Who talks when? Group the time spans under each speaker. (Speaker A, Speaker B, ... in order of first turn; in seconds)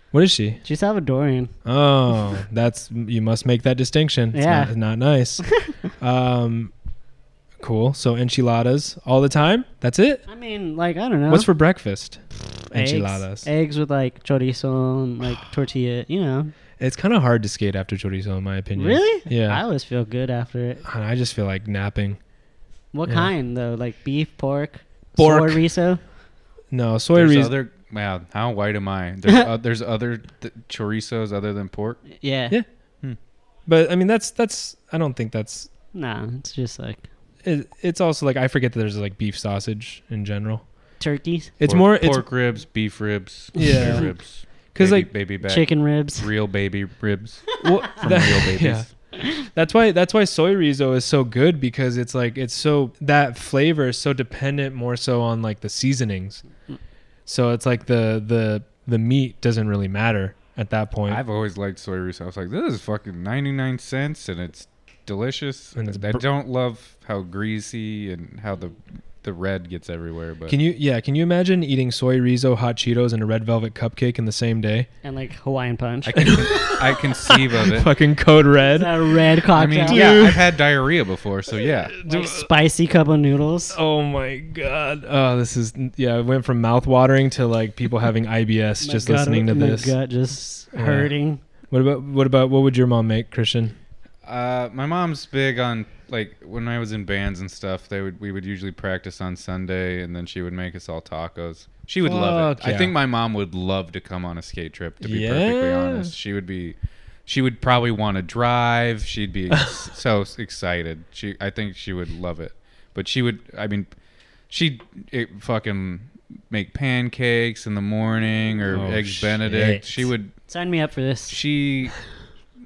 Speaker A: 0.1-0.6, 1.6-6.7, 7.6-10.2, 11.3-13.5, 16.8-19.6, 20.8-22.2, 25.2-25.7, 26.7-27.5, 33.7-35.7, 37.4-40.6, 41.6-42.2, 43.6-44.1, 44.7-45.1, 47.6-56.4, 57.3-61.2, 65.8-66.2, 70.5-74.9, 76.2-79.2, 79.8-80.5, 81.5-82.5, 83.7-90.0, 90.7-91.1, 91.7-93.8, 102.0-102.9, 105.0-106.1, 109.5-109.8, 118.7-120.1
Speaker B: 0.6-1.5, 4.3-4.7, 10.3-11.5, 12.7-16.5, 18.8-20.8, 22.9-26.0, 32.2-32.6, 35.9-37.0, 41.0-41.5, 43.7-44.0, 45.4-46.3, 75.0-76.7, 78.7-80.2, 82.0-83.8, 88.8-91.4, 120.5-121.4
Speaker C: 27.1-32.1, 41.6-48.9, 61.1-70.6, 76.0-77.9, 79.5-82.0, 94.2-106.8, 107.3-113.9, 114.5-120.3, 121.3-122.0